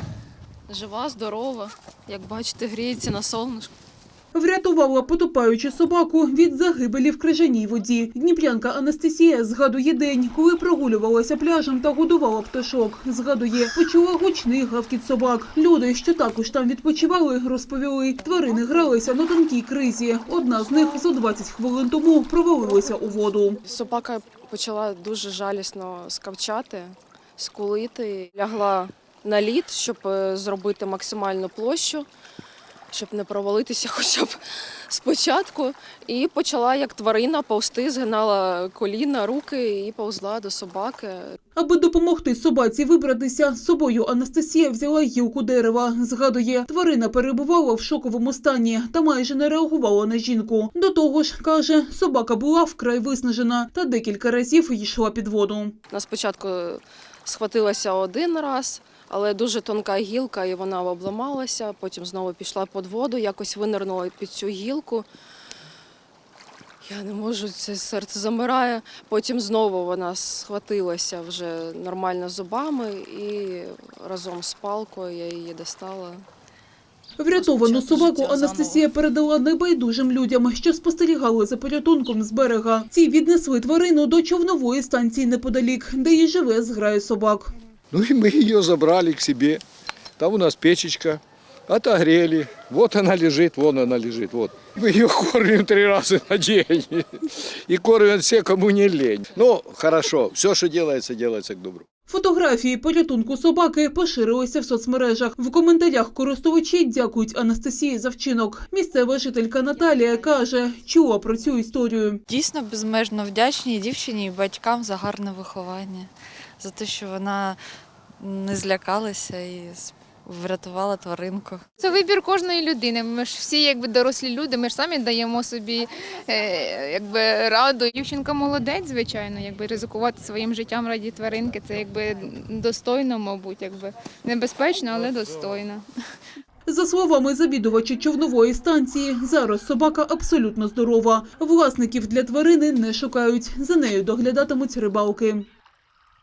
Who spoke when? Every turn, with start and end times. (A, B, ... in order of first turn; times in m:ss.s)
0:00.7-0:03.7 A
0:04.3-0:23.6 B
0:23.6-0:32.1 A
0:32.9-0:41.4 A
0:41.6-0:55.7 B
0:55.9-1:05.1 A
1:06.8-1:16.2 A
1:17.2-1:27.5 B
1:17.3-1:18.8 A
1:27.9-1:29.6 C
1:30.2-1:41.8 C
1:42.1-1:52.2 B
1:52.3-1:57.6 D
1:58.2-2:01.6 D
2:01.8-2:15.8 E
2:16.7-2:25.4 B